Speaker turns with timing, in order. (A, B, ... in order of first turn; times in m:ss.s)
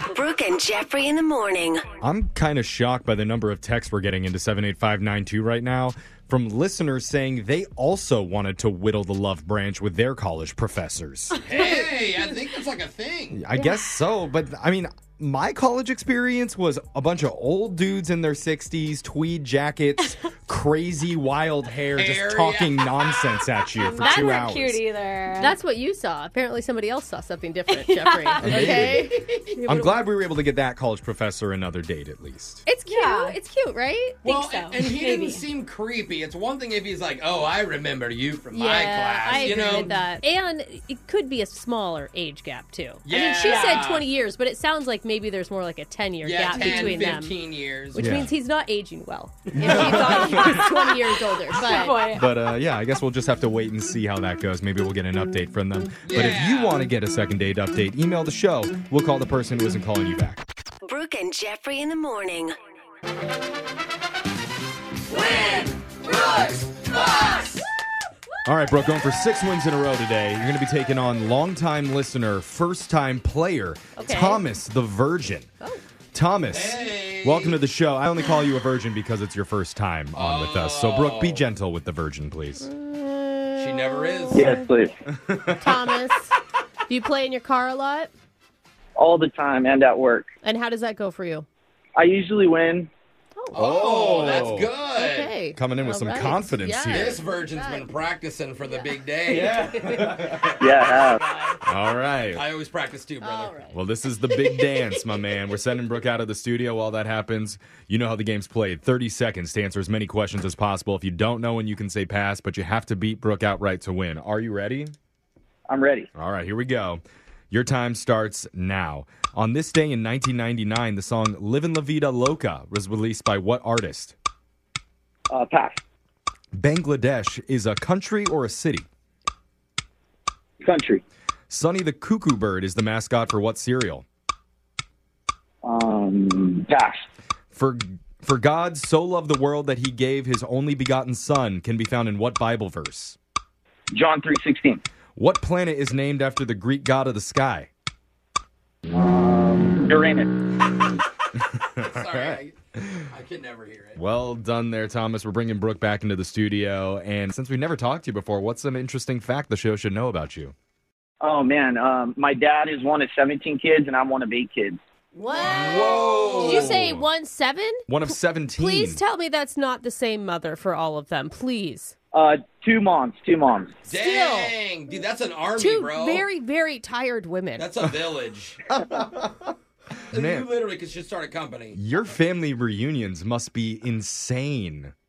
0:00.1-0:01.8 A
0:02.0-0:11.4 B
0:11.4-0:13.4 C
0:11.5-0:11.8 D
0:13.3-0:24.8 B
0:22.0-0:23.2 C
0:23.8-0:25.6 D
0:24.0-0:24.4 E
0:25.4-0:30.0 E
0:27.7-0:28.4 D
0:28.4-0:32.6 B
0:28.5-0:29.5 C
0:32.7-0:34.2 E
0:32.9-0:33.4 D
0:34.2-0:35.4 D
0:34.2-0:40.0 C
0:38.5-0:47.3 E
0:43.1-0:44.1 C
0:43.4-0:43.9 D
0:46.2-0:48.2 C
0:46.5-0:47.2 D
0:47.9-0:52.0 E
0:48.0-0:48.3 B
0:49.5-0:50.0 C
0:49.5-0:50.7 B
0:49.6-0:52.2 D
0:52.1-1:00.4 B
0:56.0-0:56.9 C
1:00.8-1:02.5 A
1:05.1-1:07.6 C
1:08.5-1:15.5 B
1:14.0-1:14.4 E
1:16.1-1:22.7 B
1:16.5-1:17.6 C
1:20.2-1:21.4 C
1:22.6-1:24.7 E
1:23.6-1:24.6 C
1:24.3-1:24.9 F
1:25.1-1:25.7 B
1:25.6-1:26.3 E
1:26.9-1:28.1 E
1:29.0-1:30.3 F
1:30.4-1:31.5 E
1:32.0-1:32.9 F
1:33.5-1:35.3 C
1:33.6-1:34.7 B
1:35.0-1:37.9 E
1:35.6-1:37.2 B
1:36.9-1:41.6 C
1:39.3-1:40.6 B
1:39.3-1:39.6 F
1:40.6-1:41.2 F
1:41.6-1:42.4 B
1:42.3-1:43.6 C
1:43.2-1:43.8 E
1:43.7-1:54.9 B
1:44.3-1:45.0 C
1:55.7-1:56.1 F
1:56.1-2:04.2 B
2:05.3-2:05.8 F
2:06.5-2:08.9 B
2:10.6-2:11.0 F
2:11.5-2:14.0 B
2:15.6-2:17.0 F
2:17.5-2:23.2 B
2:23.9-2:24.8 F
2:25.2-2:27.7 B
2:28.9-2:30.3 F
2:31.8-2:33.0 B
2:31.8-2:32.6 C
2:33.1-2:34.0 C
2:34.0-2:40.5 B
2:41.2-2:44.8 F
2:45.2-2:52.0 E
2:45.3-2:46.7 C
2:46.4-2:47.1 B
2:47.9-2:49.0 B
2:52.1-2:53.8 F
2:53.9-2:56.2 C
2:53.9-2:54.6 E
2:55.6-2:57.7 E
2:57.6-2:58.6 C
2:58.7-2:59.5 B
3:00.1-3:00.5 B
3:00.1-3:01.8 C
3:01.7-3:04.9 B